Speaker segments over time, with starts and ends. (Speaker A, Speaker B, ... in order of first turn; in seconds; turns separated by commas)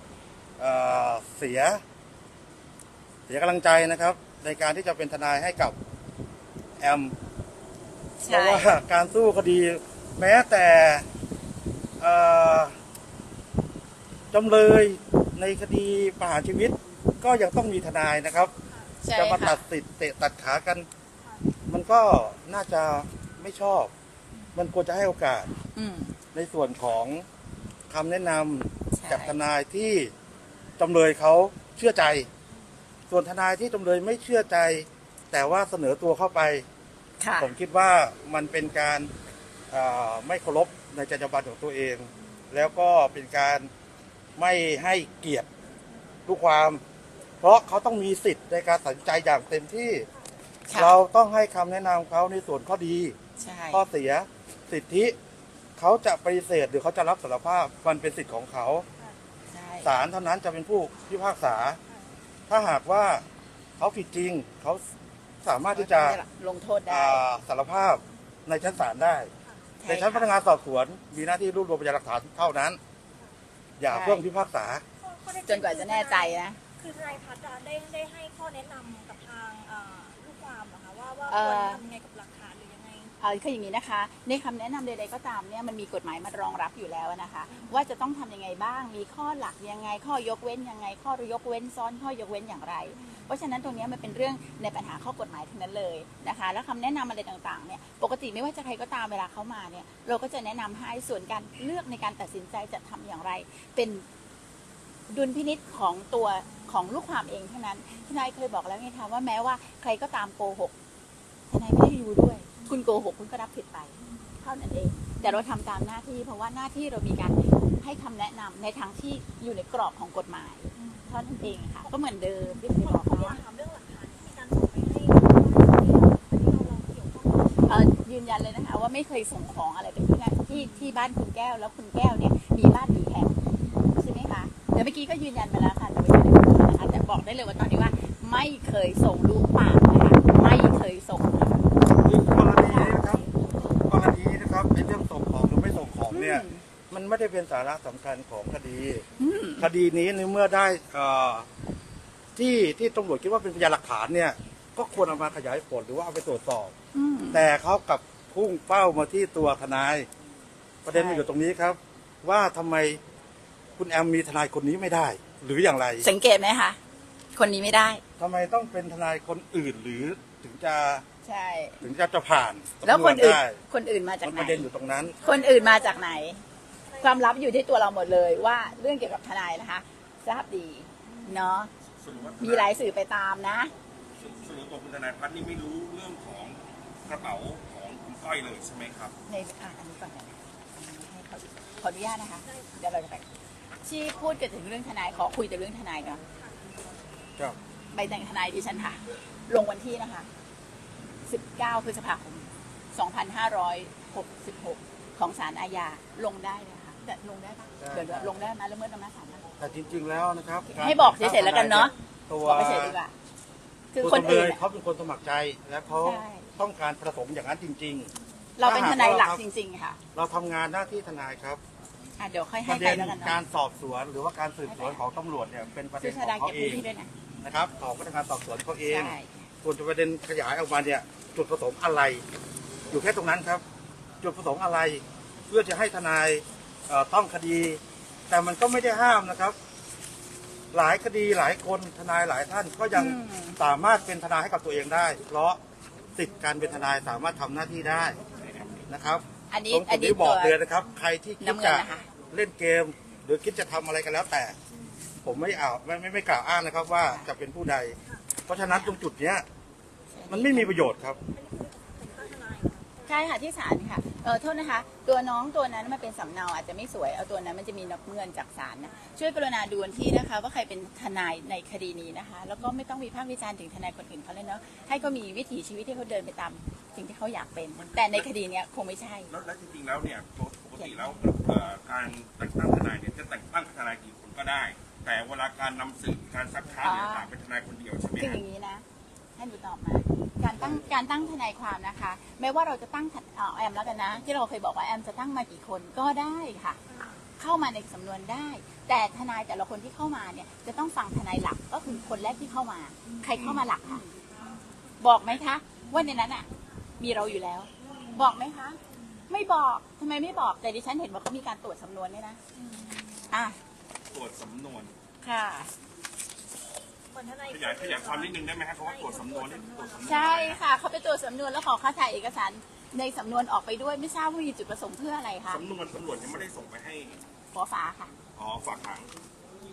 Speaker A: 0.6-1.8, Speaker A: 3.3-5.8, Speaker A: 6.8-7.1, Speaker B: 8.2-8.7, Speaker A: 8.3-11.1, Speaker A: 12.0-12.8, Speaker A: 14.3-18.5, Speaker B: 19.0-19.6, Speaker A: 19.1-20.9, Speaker A: 21.7-23.9, Speaker A: 24.6-25.5, Speaker B: 25.8-26.2, Speaker A: 26.3-27.3, Speaker A: 27.9-30.1, Speaker B: 28.9-29.4, Speaker A: 30.8-32.3, Speaker A: 33.1-36.7, Speaker B: 37.2-37.5, Speaker A: 37.4-39.1, Speaker A: 39.7-43.7, Speaker A: 44.4-45.5, Speaker A: 46.3-46.8, Speaker A: 47.4-50.1, Speaker B: 50.7-51.0, Speaker A: 50.7-53.2, Speaker B: 53.4-53.8, Speaker A: 53.7-55.2, Speaker A: 55.8-58.9, Speaker B: 59.5-59.9, Speaker A: 59.8-61.8, Speaker A: 62.5-63.2, Speaker A: 63.8-64.8, Speaker A: 65.4-66.2, Speaker B: 65.7-67.2, Speaker A: 66.9-69.3, Speaker B: 69.8-70.3, Speaker A: 69.9-72.8, Speaker A: 73.8-74.8, Speaker B: 73.9-74.2, Speaker C: 75.0-83.2, Speaker B: 75.5-76.6, Speaker B: 81.3-81.8, Speaker B: 83.2-104.0, Speaker C: 87.5-87.8, Speaker C: 93.0-93.3, Speaker B: 105.1-110.7, Speaker C: 106.5-106.9, Speaker B: 111.5-123.4, Speaker C: 112.5-112.8, Speaker C: 114.0-114.3, Speaker C: 115.2-115.5, Speaker C: 120.8-128.0, Speaker B: 127.7-141.7, Speaker C: 130.5-131.1, Speaker C: 133.6-133.9, Speaker A: 141.9-143.2, Speaker B: 142.7-142.9, Speaker C: 143.1-143.5, Speaker A: 143.9-149.1, Speaker B: 146.1-146.6, Speaker B: 149.2-149.7, Speaker A: 149.6-151.5, Speaker A: 152.4-156.7, Speaker B: 156.9-157.5, Speaker A: 157.3-160.1, Speaker A: 160.8-163.0, Speaker B: 160.9-161.3, Speaker A: 163.8-166.1, Speaker B: 166.0-166.8, Speaker B: 167.3-168.0, Speaker A: 168.2-171.0, Speaker B: 171.2-171.8, Speaker A: 171.8-173.6, Speaker B: 172.8-174.7, Speaker A: 174.2-175.2, Speaker B: 175.2-176.4, Speaker C: 175.2-176.3, Speaker C: 176.9-177.3, Speaker B: 177.0-181.7, Speaker C: 181.1-181.7, Speaker D: 182.0-182.8, Speaker B: 182.4-183.7, Speaker D: 184.2-189.1, Speaker B: 189.3-193.2, Speaker C: 192.4-192.8, Speaker B: 193.8-196.2, Speaker B: 197.9-200.3, Speaker B: 201.3-209.4, Speaker A: 207.8-208.3, Speaker A: 209.6-213.0, Speaker B: 210.7-213.1, Speaker B: 213.9-214.6, Speaker A: 214.0-218.1, Speaker B: 216.0-216.5, Speaker B: 218.6-220.0, Speaker A: 218.6-219.4, Speaker A: 220.1-221.6, Speaker B: 222.2-223.4, Speaker A: 222.7-226.9, Speaker B: 224.7-225.0, Speaker B: 226.0-227.1, Speaker A: 227.4-232.2, Speaker B: 228.8-229.4, Speaker A: 232.9-233.6, Speaker A: 234.2-239.6, Speaker A: 240.7-245.6, Speaker B: 242.9-243.6, Speaker A: 246.2-248.2, Speaker A: 248.9-254.6, Speaker B: 249.5-250.6, Speaker B: 251.4-252.1, Speaker A: 255.2-259.4, Speaker B: 258.6-259.0, Speaker B: 260.1-260.7, Speaker A: 260.3-261.2, Speaker C: 261.3-263.3, Speaker B: 263.1-279.3, Speaker D: 277.8-278.3, Speaker D: 279.3-288.4, Speaker B: 286.8-287.3, Speaker B: 288.2-288.8, Speaker B: 289.4-296.8, Speaker A: 290.6-290.8, Speaker C: 296.9-297.3, Speaker B: 297.4-304.0, Speaker C: 303.1-303.3, Speaker D: 303.4-303.6, Speaker B: 305.0-306.5, Speaker C: 305.2-306.1, Speaker B: 307.0-308.8, Speaker C: 307.9-308.3, Speaker B: 309.3-312.4, Speaker C: 312.6-313.3, Speaker B: 313.3-313.6, Speaker D: 314.1-314.9, Speaker B: 315.2-315.7, Speaker C: 317.1-320.2, Speaker D: 317.5-320.6, Speaker B: 320.1-325.6, Speaker D: 325.5-327.2, Speaker B: 327.5-328.1, Speaker D: 328.4-329.1